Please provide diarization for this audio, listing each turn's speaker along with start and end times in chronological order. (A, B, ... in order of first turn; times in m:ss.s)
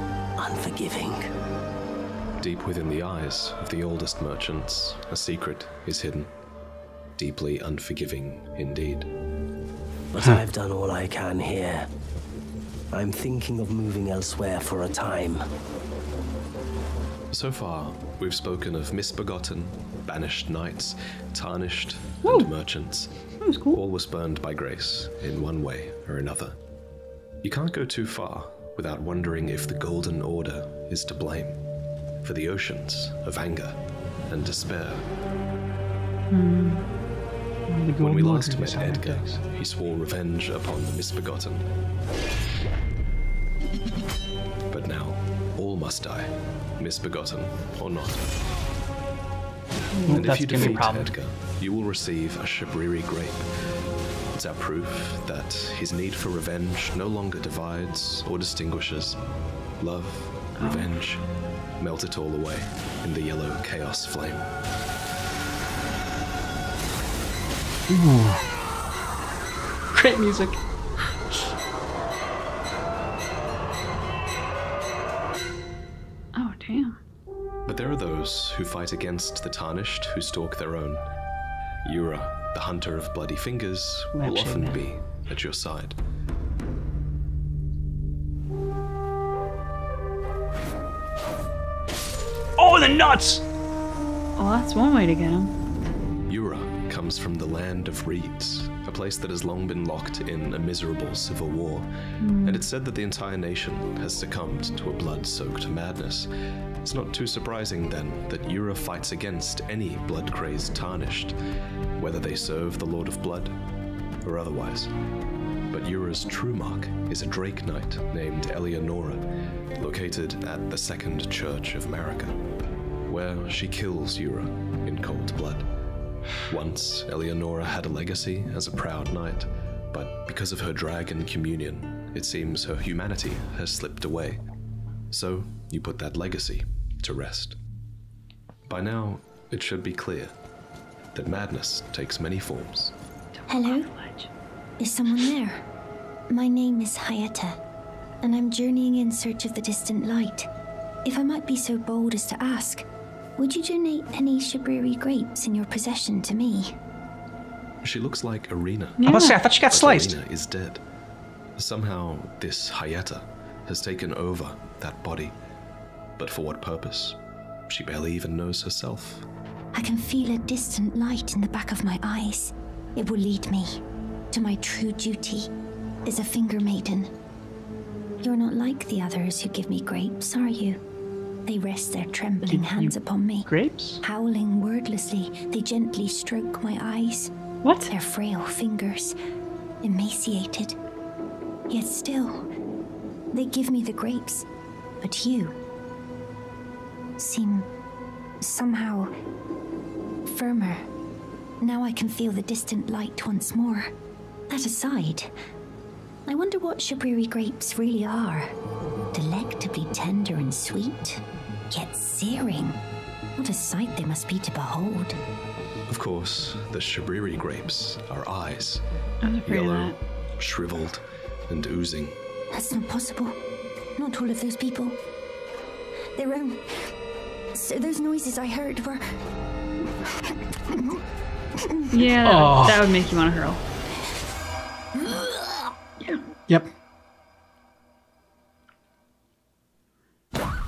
0:00.4-0:01.3 A
0:02.4-0:06.3 B
0:07.2-0:09.1 B
0:10.1-0:11.9 A
0:12.9-0:15.4 A
0:17.3-0:26.6 B
0:23.4-0:23.8 C
0:27.4-0:31.6 B
0:32.2-0:33.8 B
0:34.3-0:35.0 B
0:36.3-0:36.8 C
0:37.7-0:39.3 D
0:38.0-0:41.6 B
0:44.7-0:48.2 B
0:50.0-0:51.1 D
0:50.1-0:53.5 B
0:54.3-0:59.2 B
0:59.8-1:01.2 B
1:00.6-1:00.8 C
1:01.8-1:04.5 B
1:07.9-1:08.4 D
1:10.0-1:10.5 D
1:10.0-1:10.5 C
1:16.3-1:17.0 C
1:17.6-1:21.0 B
1:21.8-1:26.0 B
1:24.1-1:24.8 D
1:32.6-1:33.4 D
1:34.4-1:35.5 C
1:36.3-1:41.9 B
1:42.2-1:42.6 C
1:42.4-1:46.3 B
1:46.8-1:51.4 B
1:52.0-1:53.6 B
1:54.2-1:54.9 B
1:55.7-1:59.2 B
1:59.8-2:02.4 B
2:03.1-2:05.7 B
2:06.5-2:14.4 B
2:15.1-2:17.6 B
2:18.7-2:20.3 B
2:21.1-2:22.9 B
2:23.3-2:24.3 C
2:23.5-2:23.9 E
2:24.8-2:25.6 E
2:26.3-2:27.6 E
2:28.2-2:30.5 E
2:31.0-2:32.8 E
2:33.4-2:36.8 E
2:37.8-2:39.0 B
2:39.0-2:39.4 C
2:39.0-2:40.2 D
2:39.7-2:40.8 B
2:41.6-2:45.3 B
2:46.2-2:49.2 B
2:49.7-2:55.5 E
2:56.0-2:57.1 E
2:58.2-3:00.8 E
3:01.4-3:03.5 E
3:02.4-3:02.9 D
3:03.4-3:04.0 D
3:04.0-3:07.3 E
3:07.6-3:07.9 C
3:07.9-3:09.2 E
3:09.8-3:10.8 E
3:11.7-3:12.5 E
3:13.3-3:14.4 E
3:15.0-3:15.6 E
3:17.2-3:17.7 E
3:18.4-3:19.1 E
3:20.2-3:20.9 E
3:21.6-3:23.9 E
3:24.5-3:25.3 E
3:26.3-3:28.5 E
3:29.1-3:32.8 E
3:33.4-3:35.2 E
3:35.9-3:38.8 B
3:39.2-3:39.9 C
3:39.4-3:42.2 B
3:42.5-3:43.4 E
3:44.0-3:45.0 E
3:46.2-3:46.9 E
3:47.5-3:49.0 E
3:50.0-3:51.0 E
3:51.6-3:52.1 E
3:51.9-3:53.6 C
3:52.2-3:52.8 D
3:54.9-3:55.4 E